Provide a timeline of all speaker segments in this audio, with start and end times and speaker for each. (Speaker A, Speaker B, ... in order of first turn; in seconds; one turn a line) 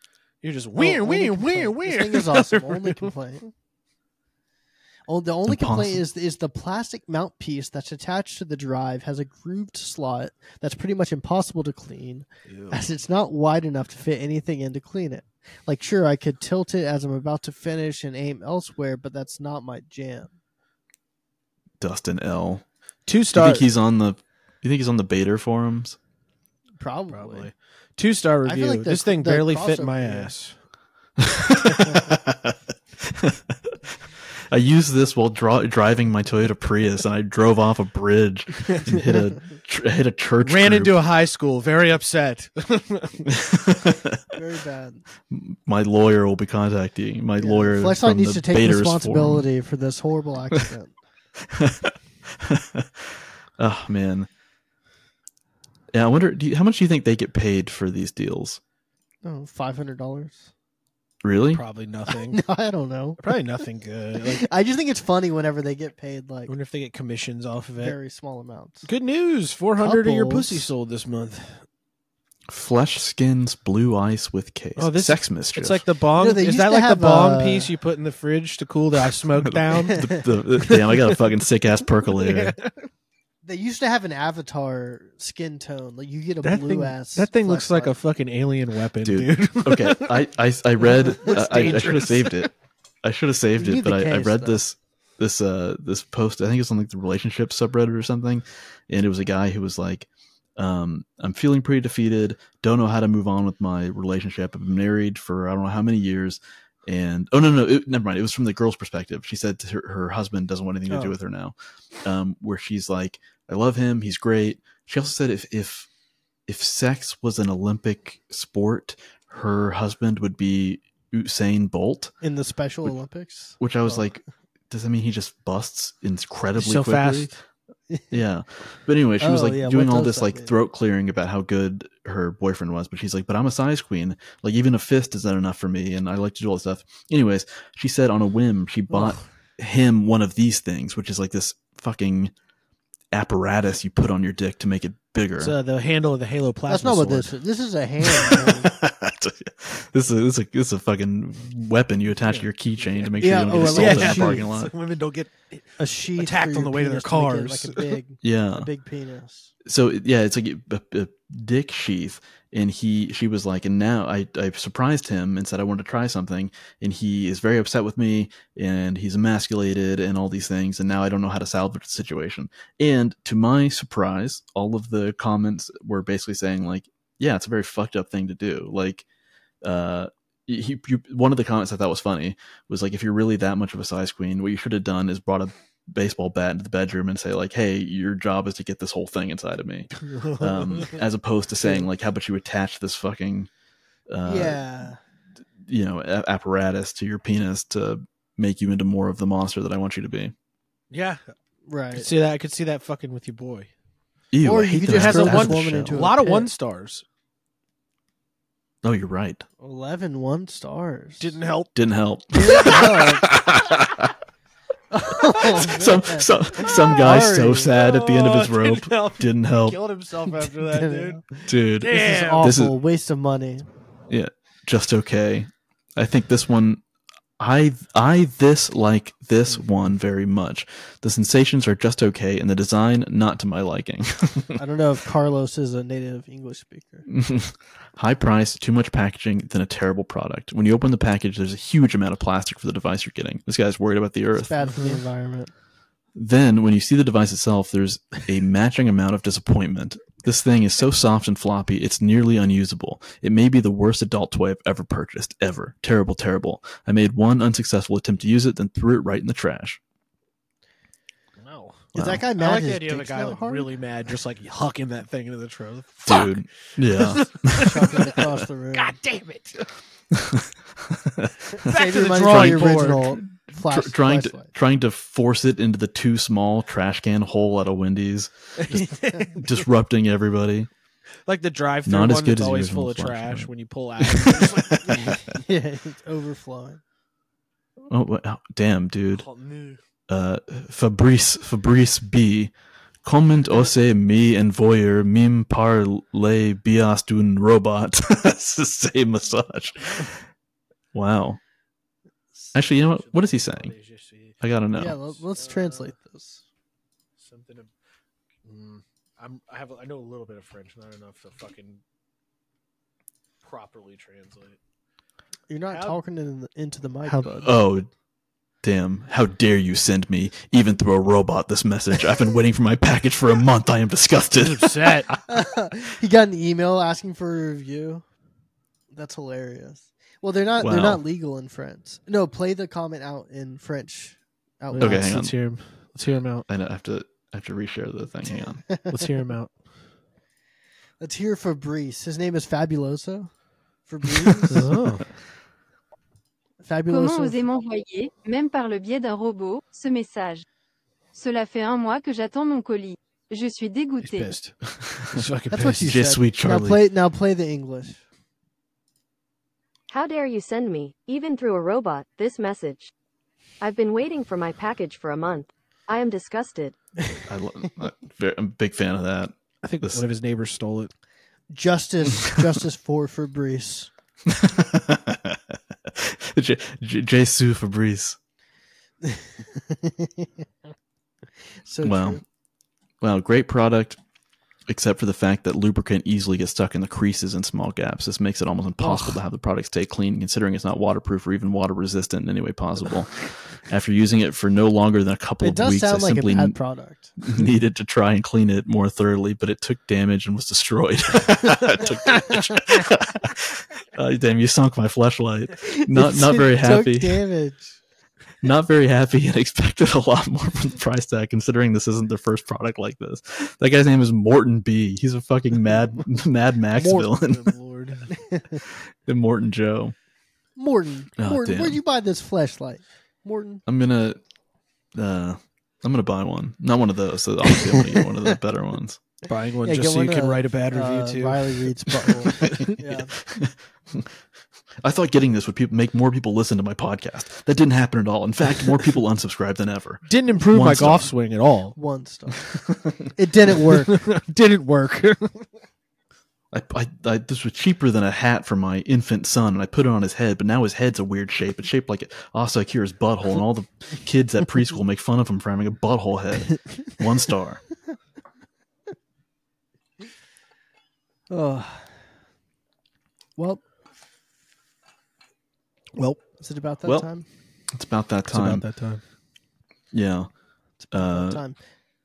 Speaker A: 0.4-3.1
Speaker B: 0.8-3.4
Speaker B: 5.1-20.3
Speaker C: 5.5-6.0
Speaker A: 12.4-12.8
Speaker C: 21.8-22.6
Speaker A: 23.1-23.6
Speaker C: 23.3-26.0
Speaker B: 26.8-27.5
Speaker A: 27.1-30.5
Speaker B: 28.4-30.3
Speaker C: 31.2-33.7
Speaker C: 34.5-41.0
Speaker A: 40.4-43.3
Speaker C: 43.3-44.2
Speaker B: 44.3-45.0
Speaker C: 45.3-49.5
Speaker B: 47.4-50.9
Speaker C: 51.4-54.3
Speaker C: 55.9-58.6
Speaker B: 59.2-60.5
Speaker C: 61.2-61.6
Speaker A: 61.5-62.4
Speaker B: 62.1-63.4
Speaker A: 63.2-64.5
Speaker B: 64.3-66.5
Speaker A: 66.5-68.0
Speaker B: 67.8-68.9
Speaker A: 68.8-71.6
Speaker B: 69.8-70.7
Speaker C: 72.5-75.8
Speaker A: 74.8-81.2
Speaker B: 76.2-77.7
Speaker C: 79.4-82.6
Speaker A: 82.1-82.8
Speaker B: 83.4-87.9
Speaker A: 86.4-90.2
Speaker C: 89.0-92.5
Speaker A: 90.8-92.5
Speaker C: 93.0-115.9
Speaker B: 93.6-94.6
Speaker C: 116.5-122.1
Speaker B: 122.2-124.1
Speaker C: 123.6-127.3
Speaker A: 126.5-127.3
Speaker B: 127.9-128.2
Speaker C: 128.1-142.3
Speaker B: 129.2-130.5
Speaker B: 138.9-139.2
Speaker C: 143.1-145.5
Speaker A: 145.4-147.3
Speaker B: 146.7-148.7
Speaker C: 148.2-154.7
Speaker A: 152.2-157.9
Speaker B: 153.2-154.5
Speaker B: 155.8-159.5
Speaker C: 158.2-158.7
Speaker C: 159.6-179.0
Speaker C: 179.6-193.5
Speaker A: 190.0-191.0
Speaker C: 194.1-194.6
Speaker B: 194.2-195.0
Speaker C: 195.6-200.3
Speaker A: 200.9-201.2
Speaker B: 201.7-202.1
Speaker A: 201.9-203.7
Speaker C: 204.3-206.0
Speaker B: 204.4-206.5
Speaker A: 204.9-207.0
Speaker C: 208.8-209.4
Speaker B: 209.6-211.3
Speaker A: 211.2-211.8
Speaker C: 211.7-214.1
Speaker B: 212.3-213.2
Speaker A: 212.6-213.6
Speaker B: 214.9-217.7
Speaker A: 215.5-215.9
Speaker C: 215.7-219.8
Speaker A: 216.7-217.1
Speaker A: 217.6-222.5
Speaker B: 220.7-221.2
Speaker C: 221.5-222.7
Speaker B: 221.9-223.7
Speaker C: 224.1-226.8
Speaker C: 227.4-234.6
Speaker B: 234.6-237.0
Speaker C: 237.1-244.6
Speaker B: 244.3-245.5
Speaker A: 244.7-245.0
Speaker C: 246.1-259.8
Speaker A: 261.4-269.7
Speaker B: 261.9-263.7
Speaker C: 261.9-262.2
Speaker C: 266.1-267.9
Speaker B: 267.6-269.0
Speaker C: 270.1-280.7
Speaker B: 271.6-274.5
Speaker A: 271.7-273.0
Speaker A: 278.6-279.6
Speaker A: 281.3-285.1
Speaker C: 281.9-283.5
Speaker C: 284.0-285.0
Speaker B: 284.9-286.8
Speaker C: 287.9-289.3
Speaker A: 289.1-289.8
Speaker C: 290.1-292.5
Speaker C: 293.0-300.2
Speaker C: 300.9-301.4
Speaker C: 302.5-303.7
Speaker A: 302.6-304.4
Speaker C: 304.4-305.0
Speaker B: 304.8-306.4
Speaker A: 305.3-305.9
Speaker A: 307.2-307.7
Speaker A: 308.4-311.8
Speaker A: 313.4-314.6
Speaker B: 315.5-317.5
Speaker A: 315.7-316.0
Speaker A: 317.1-317.5
Speaker C: 317.4-317.9
Speaker C: 318.6-325.2
Speaker A: 324.4-325.1
Speaker B: 325.3-328.0
Speaker B: 328.9-335.1
Speaker C: 330.6-331.0
Speaker A: 334.7-336.4
Speaker C: 334.8-335.3
Speaker C: 336.5-338.6
Speaker A: 338.9-339.5
Speaker B: 341.0-343.3
Speaker B: 343.9-344.6
Speaker A: 344.5-345.1
Speaker B: 346.6-347.4
Speaker D: 346.9-350.4
Speaker D: 351.1-354.3
Speaker A: 354.0-356.0
Speaker B: 355.5-358.0
Speaker C: 355.8-356.9
Speaker E: 359.9-362.9
Speaker E: 363.6-366.8
Speaker C: 367.3-370.1
Speaker A: 369.6-370.9
Speaker B: 371.5-373.9
Speaker C: 374.2-378.2
Speaker B: 379.0-380.3
Speaker B: 381.6-382.2
Speaker C: 381.8-382.2
Speaker C: 383.0-384.0
Speaker C: 384.7-396.6
Speaker B: 388.8-389.1
Speaker B: 395.4-397.1
Speaker C: 397.2-407.2
Speaker B: 405.7-407.8
Speaker C: 408.4-417.5
Speaker A: 416.8-418.1
Speaker B: 418.1-418.6
Speaker C: 419.0-419.9
Speaker B: 420.6-423.6
Speaker C: 421.2-421.8
Speaker C: 423.7-424.2
Speaker C: 424.9-429.0
Speaker A: 429.3-431.7
Speaker B: 429.6-433.1
Speaker C: 432.2-432.7
Speaker A: 432.3-432.7
Speaker C: 433.3-434.1
Speaker C: 434.8-441.1
Speaker A: 440.1-441.8
Speaker B: 440.7-441.1
Speaker B: 441.7-442.4
Speaker B: 443.1-444.0
Speaker A: 443.7-445.4
Speaker C: 446.5-457.6
Speaker B: 461.3-461.9
Speaker B: 463.4-463.6
Speaker A: 465.9-466.2
Speaker B: 466.4-467.2
Speaker C: 466.8-467.1
Speaker C: 467.7-468.6
Speaker A: 468.3-469.0
Speaker C: 469.9-470.3
Speaker B: 470.8-471.6
Speaker C: 470.9-471.4